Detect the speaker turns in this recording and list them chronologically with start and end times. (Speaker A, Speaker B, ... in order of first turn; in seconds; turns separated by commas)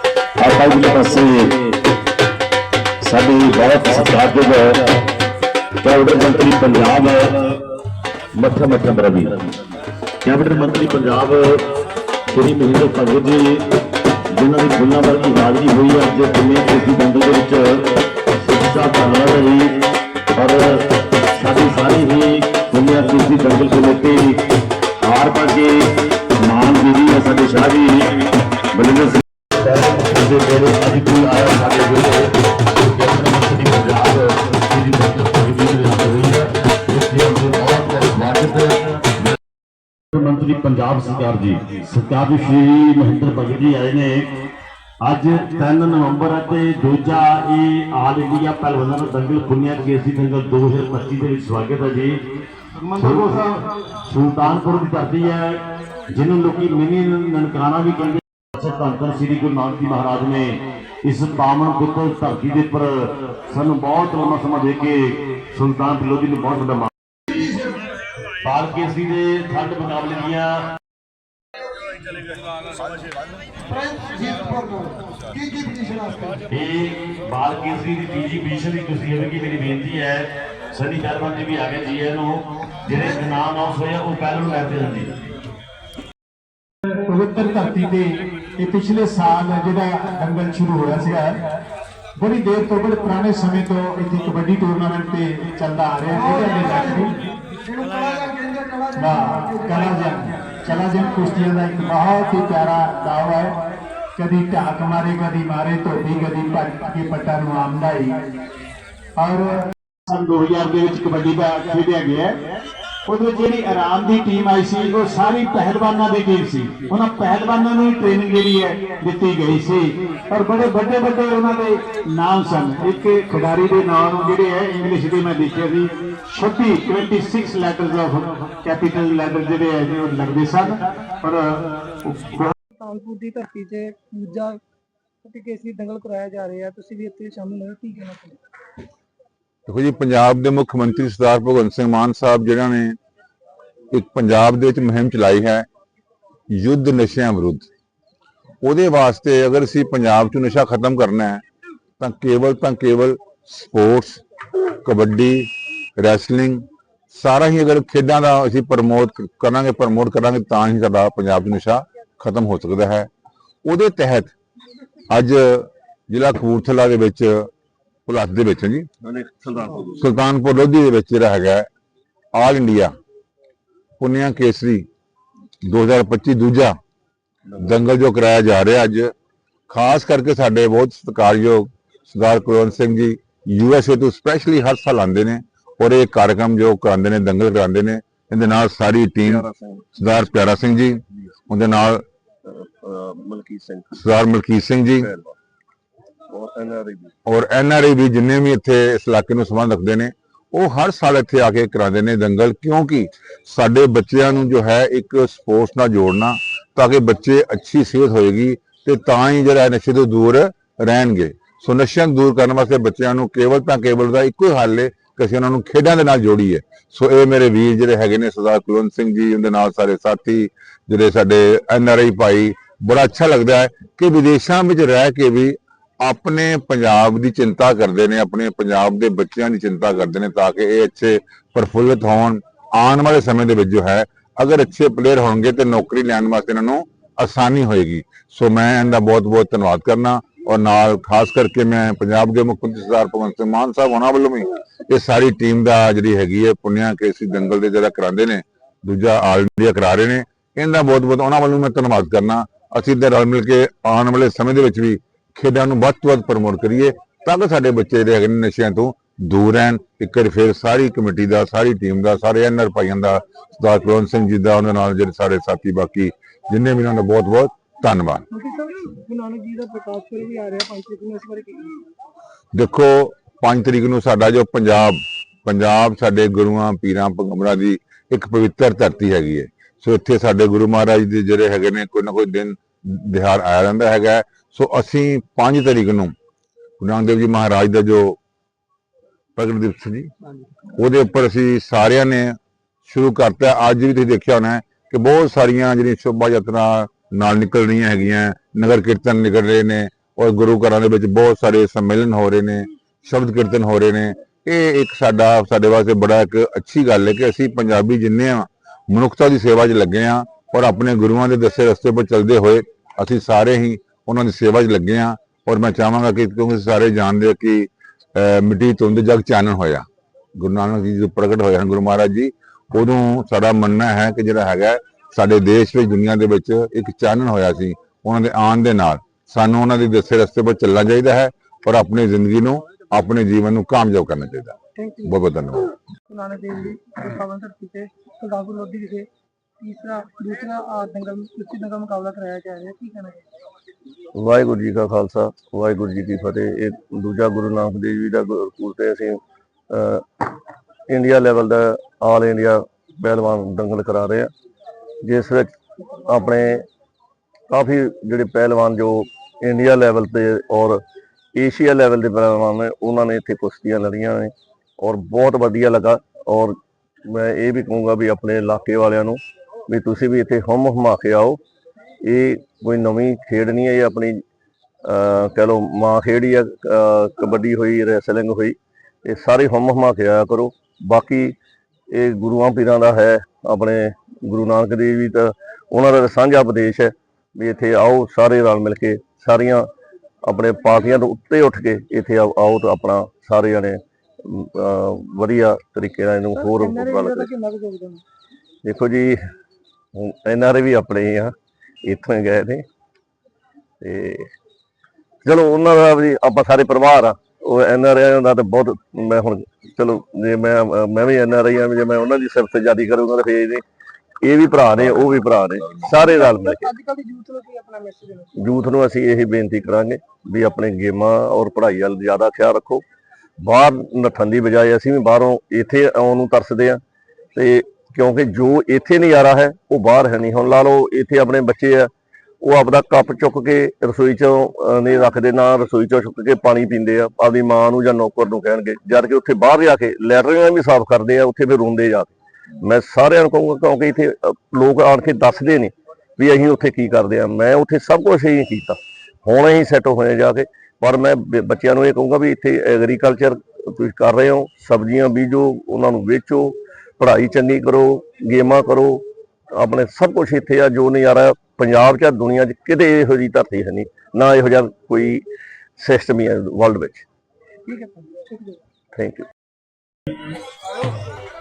Speaker A: 0.4-1.5, Speaker A: 3.0-4.8, Speaker A: 5.8-7.4, Speaker A: 8.3-9.5, Speaker A: 10.2-11.6, Speaker A: 12.3-13.6, Speaker A: 14.3-17.8, Speaker A: 18.4-19.7, Speaker A: 20.3-20.6, Speaker A: 21.3-24.3, Speaker A: 25.0-25.7, Speaker A: 26.4-28.2, Speaker A: 28.7-38.8, Speaker A: 40.1-44.3, Speaker A: 45.0-52.1, Speaker A: 53.0-67.5, Speaker A: 68.4-70.6, Speaker A: 76.5-85.1, Speaker B: 87.0-91.4, Speaker B: 92.2-97.2, Speaker B: 98.9-103.5, Speaker B: 104.2-108.2, Speaker B: 109.2-112.3, Speaker B: 113.0-132.5, Speaker C: 132.7-134.6, Speaker C: 135.2-138.4, Speaker D: 139.7-143.0, Speaker D: 143.9-145.7, Speaker D: 146.5-147.7, Speaker D: 148.6-151.4, Speaker D: 152.0-154.2, Speaker D: 154.8-163.1, Speaker D: 163.6-164.3, Speaker D: 165.1-167.5, Speaker D: 168.1-168.9, Speaker E: 169.0-170.0, Speaker D: 170.0-171.7, Speaker D: 172.3-172.9, Speaker D: 174.0-174.8, Speaker D: 175.6-176.8, Speaker D: 177.6-179.1, Speaker D: 179.7-192.0, Speaker E: 189.2-189.9, Speaker E: 192.4-194.0, Speaker D: 193.9-195.1, Speaker E: 195.0-195.3, Speaker E: 196.3-197.1, Speaker D: 197.2-268.2, Speaker C: 268.3-271.8, Speaker D: 272.5-286.1, Speaker D: 286.8-288.2, Speaker D: 289.4-290.1, Speaker D: 290.8-319.8, Speaker D: 320.4-335.7, Speaker C: 334.8-335.1, Speaker C: 336.1-339.1, Speaker C: 339.6-343.2, Speaker E: 344.1-349.2, Speaker E: 349.7-350.3, Speaker E: 350.9-354.3, Speaker E: 355.0-355.5, Speaker E: 356.1-356.6, Speaker E: 357.5-360.8, Speaker E: 361.3-371.4, Speaker E: 372.0-374.2, Speaker E: 374.9-381.3, Speaker E: 381.9-389.6, Speaker E: 390.2-397.3, Speaker C: 396.3-398.0, Speaker E: 398.6-399.1, Speaker E: 400.0-402.6, Speaker E: 403.8-404.3, Speaker E: 405.2-413.6, Speaker E: 414.2-416.7, Speaker C: 415.9-418.4, Speaker E: 418.4-422.8, Speaker E: 423.4-426.8, Speaker E: 427.3-431.9, Speaker E: 432.4-465.2, Speaker E: 465.8-467.0, Speaker C: 467.6-468.6, Speaker E: 468.9-469.2